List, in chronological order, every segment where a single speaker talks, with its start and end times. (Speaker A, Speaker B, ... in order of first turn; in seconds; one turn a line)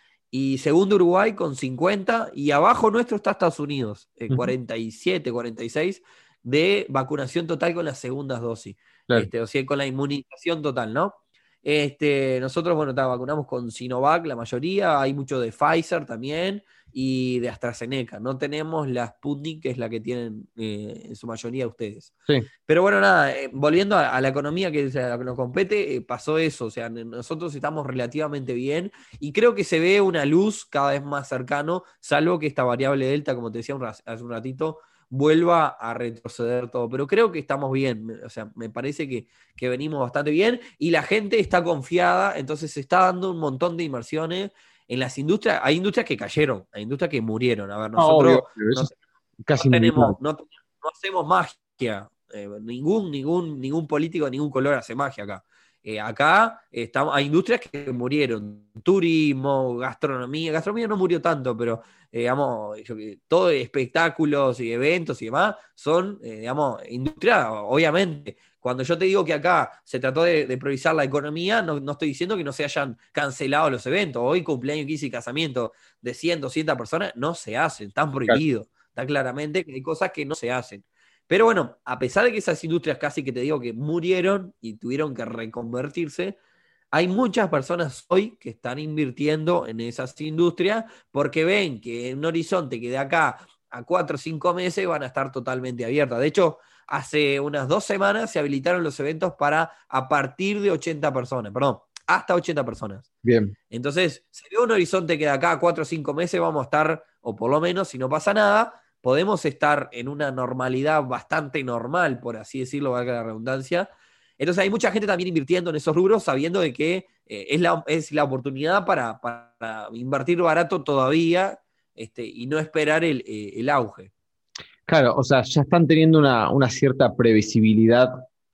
Speaker A: 0.3-22.1
Speaker A: 22.7-48.9
Speaker B: 48.0-48.9
Speaker B: 49.5-50.2
Speaker A: 49.5-86.4
Speaker A: 86.9-103.1
Speaker B: 103.2-103.5
Speaker A: 103.7-124.1
Speaker B: 124.9-128.2